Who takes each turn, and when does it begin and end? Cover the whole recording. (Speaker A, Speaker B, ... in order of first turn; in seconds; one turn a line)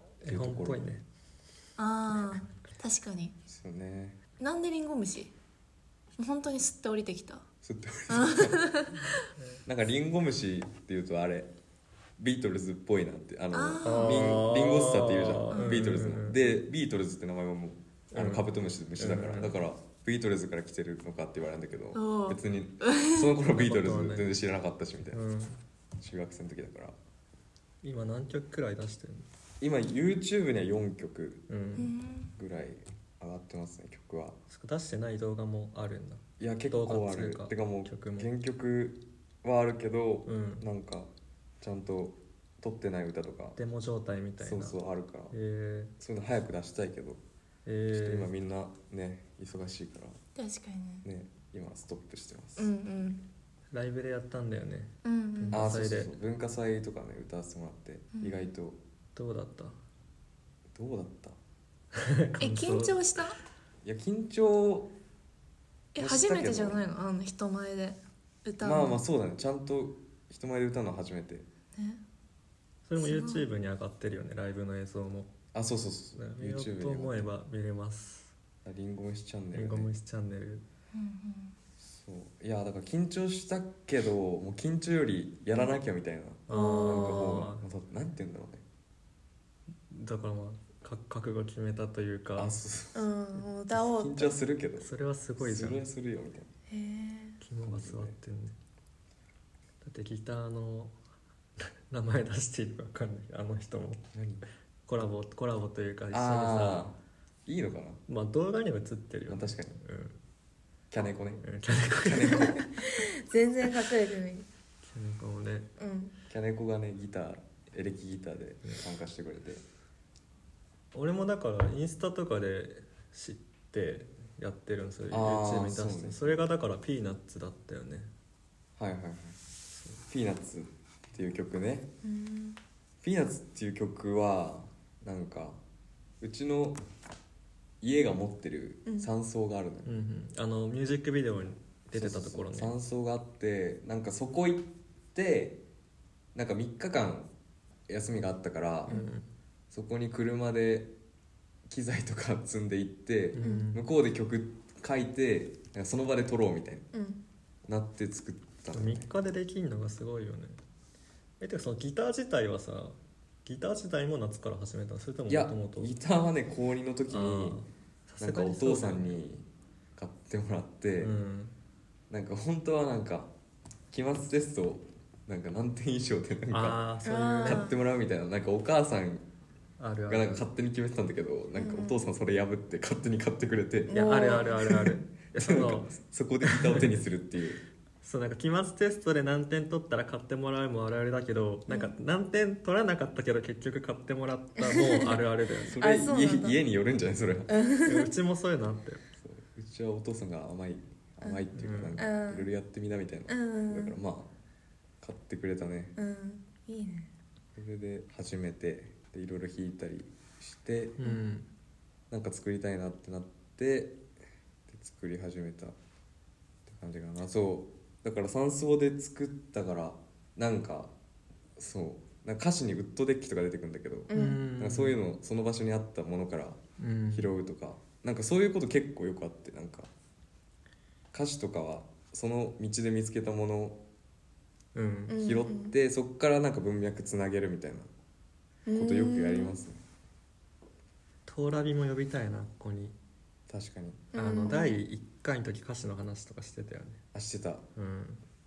Speaker A: 0.2-1.0
Speaker B: 0.3-0.9
Speaker C: 1.8-3.3
Speaker B: 3.5-4.2
Speaker C: 4.4-5.3
Speaker C: 6.2-7.5
Speaker B: 7.6-8.7
Speaker C: 8.1-9.2
Speaker A: 9.3-9.6
Speaker B: 9.7-11.5
Speaker B: 12.2-25.2
Speaker C: 13.5-14.4
Speaker A: 13.8-16.4
Speaker C: 15.5-16.0
Speaker A: 18.1-19.6
Speaker C: 21.9-23.3
Speaker A: 23.5-24.4
Speaker A: 25.1-25.6
Speaker B: 26.0-27.0
Speaker A: 27.8-29.3
Speaker B: 29.6-31.5
Speaker A: 31.5-31.9
Speaker C: 31.8-32.3
Speaker B: 32.4-34.4
Speaker A: 34.5-38.3
Speaker B: 36.4-41.1
Speaker A: 40.3-40.7
Speaker B: 41.6-43.6
Speaker A: 43.6-44.8
Speaker B: 44.4-45.4
Speaker A: 45.3-45.9
Speaker B: 46.0-47.2
Speaker A: 47.6-48.3
Speaker B: 47.9-50.2
Speaker C: 50.4-51.0
Speaker B: 51.0-52.7
Speaker C: 52.6-53.2
Speaker A: 53.7-56.1
Speaker C: 55.0-55.6
Speaker B: 55.5-58.8
Speaker C: 58.1-58.5
Speaker A: 59.2-59.8
Speaker B: 60.7-61.4
Speaker A: 62.0-63.0
Speaker C: 62.4-63.4
Speaker B: 63.8-64.9
Speaker C: 66.0-69.0
Speaker B: 66.0-66.8
Speaker B: 68.6-71.5
Speaker C: 71.8-72.0
Speaker A: 72.9-75.3
Speaker C: 73.0-73.5
Speaker B: 75.5-77.3
Speaker A: 76.2-78.3
Speaker B: 78.7-79.9
Speaker A: 79.5-80.6
Speaker C: 80.9-81.6
Speaker B: 81.8-88.6
Speaker A: 86.5-87.7
Speaker C: 86.5-87.4
Speaker A: 89.9-92.6
Speaker B: 92.4-93.1
Speaker C: 93.0-94.4
Speaker B: 93.7-96.5
Speaker A: 94.8-95.8
Speaker C: 96.7-97.4
Speaker A: 97.4-98.6
Speaker B: 97.6-98.2
Speaker A: 99.8-100.9
Speaker A: 101.6-104.1
Speaker B: 104.1-104.5
Speaker A: 104.9-106.9
Speaker B: 106.1-108.0
Speaker A: 108.1-110.2
Speaker B: 109.3-109.8
Speaker B: 110.9-112.7
Speaker A: 111.4-112.8
Speaker C: 112.3-114.5
Speaker A: 114.8-115.7
Speaker C: 115.8-116.1
Speaker B: 116.3-119.6
Speaker A: 120.9-128.1
Speaker B: 125.1-126.4
Speaker B: 128.8-129.4
Speaker B: 130.1-131.9
Speaker C: 132.0-132.6
Speaker B: 133.0-135.6
Speaker B: 136.2-136.8
Speaker B: 137.8-139.9
Speaker C: 138.8-139.1
Speaker A: 139.8-142.7
Speaker B: 141.9-145.6
Speaker B: 146.3-147.3
Speaker B: 147.9-149.0
Speaker A: 148.9-149.3
Speaker B: 149.7-150.9
Speaker B: 151.7-156.9
Speaker A: 153.3-153.8
Speaker C: 153.4-153.7
Speaker C: 156.9-157.2
Speaker B: 157.7-159.1
Speaker A: 158.7-160.6
Speaker A: 161.4-165.9
Speaker B: 165.3-167.6
Speaker A: 167.1-169.2
Speaker B: 168.2-171.1
Speaker A: 171.0-171.6
Speaker B: 172.1-173.3
Speaker B: 173.9-179.2
Speaker A: 176.5-177.7
Speaker C: 177.1-177.7
Speaker A: 179.8-180.5
Speaker B: 180.1-184.0
Speaker C: 181.6-182.0
Speaker C: 183.9-184.8
Speaker A: 183.9-187.0
Speaker B: 185.3-187.6
Speaker A: 188.0-195.8
Speaker C: 194.6-195.2
Speaker B: 195.7-197.5
Speaker C: 195.8-196.6
Speaker C: 197.5-198.1
Speaker A: 197.8-199.0
Speaker B: 199.2-204.3
Speaker C: 201.2-202.5
Speaker A: 201.6-202.0
Speaker C: 203.3-204.0
Speaker B: 205.0-205.9
Speaker C: 206.0-207.1
Speaker B: 207.6-211.0
Speaker A: 211.0-211.5
Speaker B: 212.1-214.0
Speaker B: 214.7-215.8
Speaker B: 216.7-220.9
Speaker B: 221.6-226.6
Speaker C: 224.1-224.4
Speaker A: 224.1-225.0
Speaker A: 226.8-227.3
Speaker B: 227.1-229.9
Speaker B: 231.1-233.8
Speaker A: 234.8-235.2
Speaker C: 235.1-235.7
Speaker B: 235.2-237.9
Speaker C: 238.7-239.6
Speaker B: 238.7-239.8
Speaker A: 241.3-243.0
Speaker B: 243.5-244.1
Speaker C: 244.1-244.8
Speaker A: 244.2-247.0
Speaker B: 247.1-247.7
Speaker A: 247.8-248.2